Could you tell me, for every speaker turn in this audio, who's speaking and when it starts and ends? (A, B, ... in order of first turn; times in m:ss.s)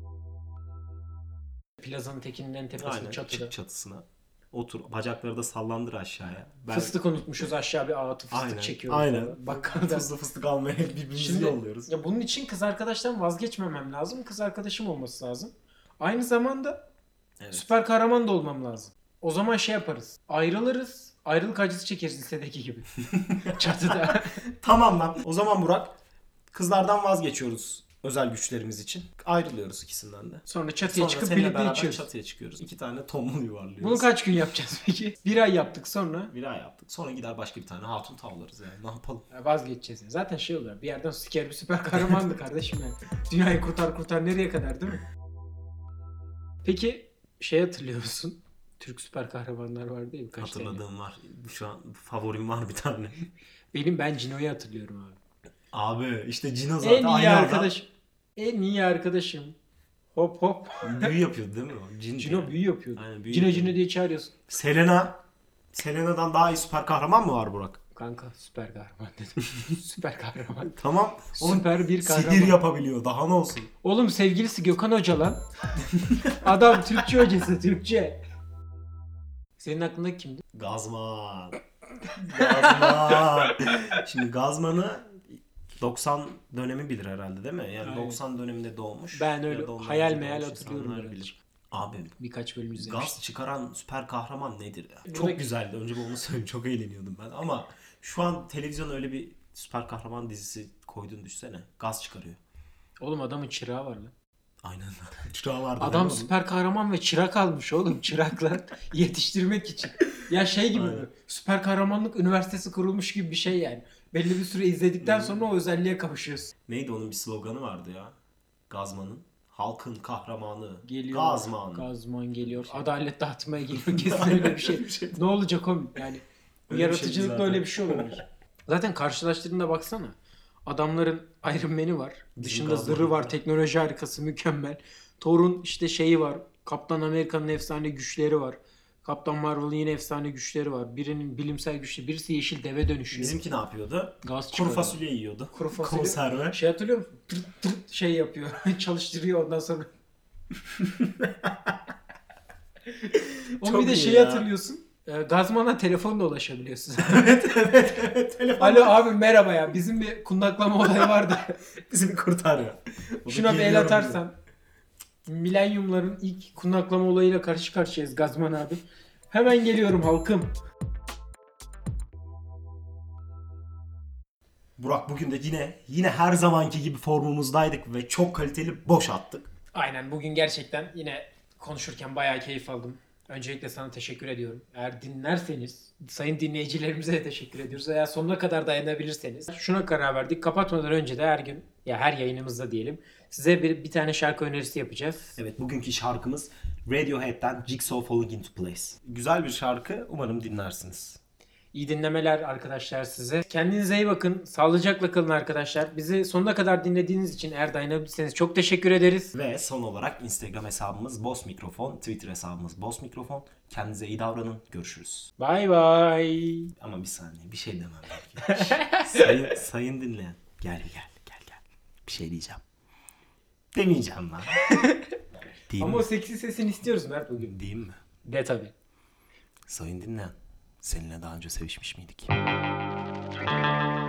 0:01.8-0:03.5 A
0:02.8-0:07.0 B
0:06.7-0:10.1 A
0:08.3-0:11.9 B
0:11.2-0:16.8 A
0:17.4-0:17.7 B
0:17.5-0:24.4 A
0:23.1-0:26.0 B
0:26.5-0:34.1 B
0:30.5-0:32.1 A
0:33.8-0:36.3 A
0:36.3-0:39.2 B
0:39.3-0:45.0 A
0:46.6-0:50.8 A
0:50.4-0:53.3 B
0:53.7-0:55.2 A
0:55.7-0:57.7 B
0:56.8-0:59.6 A
1:00.2-1:01.2 A
1:00.8-1:03.8 B
1:02.2-1:04.4 A
1:04.5-1:05.2 B
1:05.7-1:07.8 B
1:08.0-1:10.8 A
1:10.7-1:13.7 B
1:11.4-1:12.6 A
1:13.8-1:18.2 A
1:19.6-1:20.4 A
1:20.5-1:21.6 B
1:22.2-1:32.2 B
1:22.4-1:23.8 A
1:27.8-1:28.2 A
1:29.2-1:31.4 A
1:32.2-1:33.2 A
1:32.8-1:42.4 B
1:35.1-1:35.4 A
1:43.0-1:44.1 A
1:44.6-1:46.3 B
1:45.8-1:56.5 A
1:50.7-1:51.1 B
1:55.0-1:55.5 B
1:56.7-1:58.2 B
1:58.7-2:01.8 B
2:00.8-2:23.4 A
2:02.4-2:02.9 B
2:03.7-2:05.2 B
2:06.7-2:08.2 B
2:12.4-2:13.3 B
2:23.1-2:26.6 B
2:24.2-2:25.0 A
2:25.5-2:29.9 A
2:30.8-2:31.7 B
2:33.0-2:37.4 A
2:33.6-2:34.5 B
2:37.0-2:39.2 B
2:38.6-2:41.6 A
2:41.9-2:44.2 B
2:43.3-2:44.3 A
2:45.3-2:50.6 A
2:54.8-2:59.5 B
2:59.7-3:15.4 A
3:15.4-3:21.2 B
3:21.7-3:29.3 A
3:29.3-3:35.3 B
3:35.4-3:36.7 A
3:36.8-3:42.6 B
3:38.4-3:39.3 A
3:43.7-3:44.6 B
3:44.6-3:45.1 A
3:45.7-3:46.1 B
3:45.8-3:47.5 A
3:47.4-3:48.0 B
3:48.2-3:48.7 A
3:49.7-3:52.3 B